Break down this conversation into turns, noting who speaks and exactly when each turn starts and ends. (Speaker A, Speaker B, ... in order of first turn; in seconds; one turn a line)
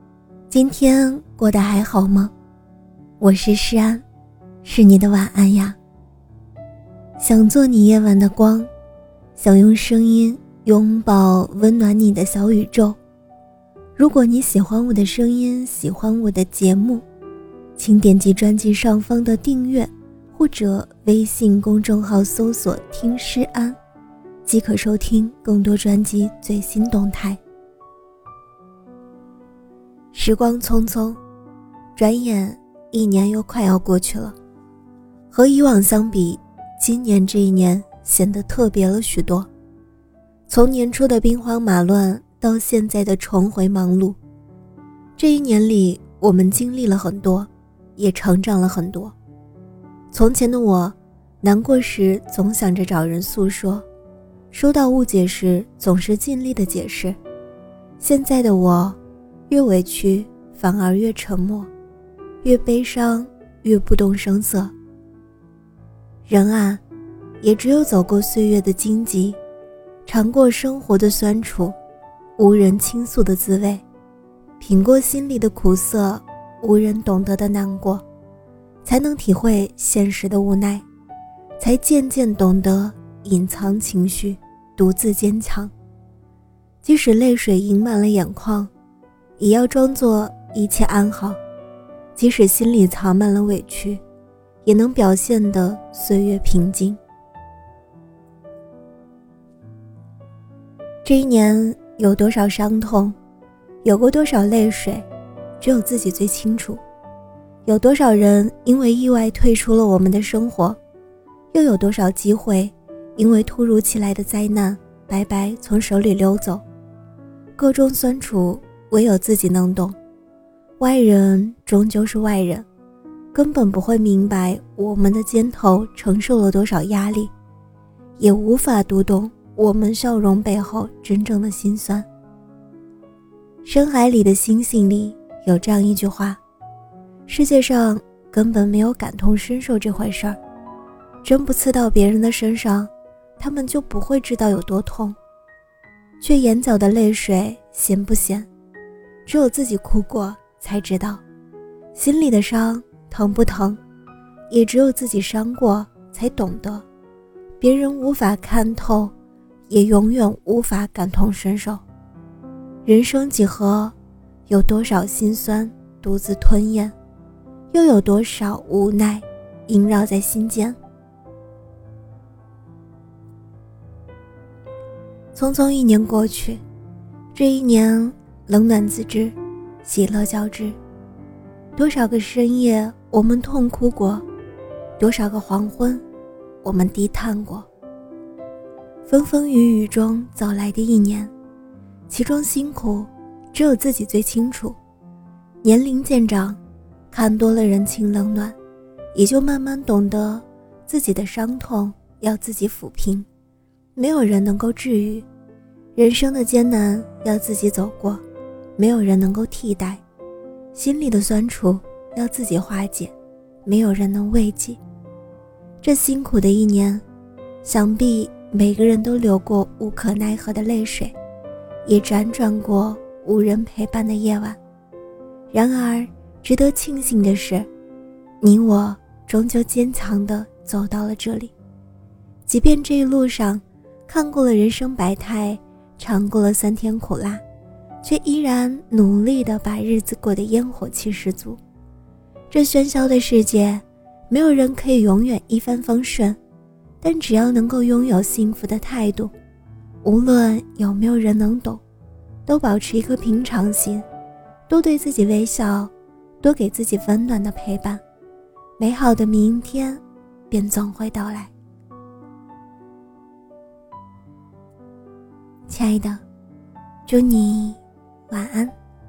Speaker A: 0.5-2.3
Speaker A: 3.2-4.0
Speaker A: 4.6-5.8
Speaker A: 7.2-8.7
Speaker A: 9.4-13.0
Speaker A: 14.0-17.0
Speaker A: 17.8-23.8
Speaker A: 24.4-27.4
Speaker A: 30.1-31.2
Speaker A: 32.0-34.4
Speaker A: 35.3-39.5
Speaker A: 40.5-44.2
Speaker A: 45.2-49.1
Speaker A: 50.1-53.9
Speaker A: 54.5-57.2
Speaker A: 58.0-59.0
Speaker A: 59.5-61.7
Speaker A: 62.4-64.7
Speaker A: 66.3-66.8
Speaker A: 67.4-69.4
Speaker A: 70.1-71.8
Speaker A: 72.4-73.8
Speaker A: 74.6-78.0
Speaker A: 78.8-80.8
Speaker A: 81.6-85.7
Speaker A: 86.8-88.7
Speaker A: 89.4-91.4
Speaker A: 92.2-94.0
Speaker A: 94.6-97.0
Speaker A: 101.0-103.2
Speaker A: 103.8-105.1
Speaker A: 105.6-106.8
Speaker A: 107.7-110.8
Speaker A: 111.5-116.6
Speaker A: 117.6-120.0
Speaker A: 120.8-122.7
Speaker A: 123.3-127.3
Speaker A: 128.2-132.1
Speaker A: 133.6-136.4
Speaker A: 137.3-140.4
Speaker A: 141.2-145.2
Speaker A: 146.2-148.5
Speaker A: 149.3-151.2
Speaker A: 151.9-153.8
Speaker A: 154.5-156.8
Speaker A: 157.6-159.1
Speaker A: 159.7-161.8
Speaker A: 162.8-163.9
Speaker A: 164.5-166.9
Speaker A: 167.7-170.8
Speaker A: 175.3-176.6
Speaker A: 177.3-180.8
Speaker A: 181.8-184.2
Speaker A: 185.0-186.0
Speaker A: 186.6-187.7
Speaker A: 189.1-191.3
Speaker A: 192.1-194.8
Speaker A: 195.6-196.6
Speaker A: 197.1-198.6
Speaker A: 199.1-203.3
Speaker A: 204.0-205.3
Speaker A: 206.0-208.2
Speaker A: 208.8-210.0
Speaker A: 210.7-213.1
Speaker A: 213.7-214.8
Speaker A: 215.8-217.0
Speaker A: 217.6-221.1
Speaker A: 221.9-224.6
Speaker A: 225.5-227.7
Speaker A: 228.4-231.5
Speaker A: 232.5-237.4
Speaker A: 238.0-241.6
Speaker A: 242.5-246.4
Speaker A: 247.0-249.3
Speaker A: 250.0-251.8
Speaker A: 252.5-254.1
Speaker A: 254.7-258.0
Speaker A: 258.8-261.5
Speaker A: 265.7-266.2
Speaker A: 267.1-268.8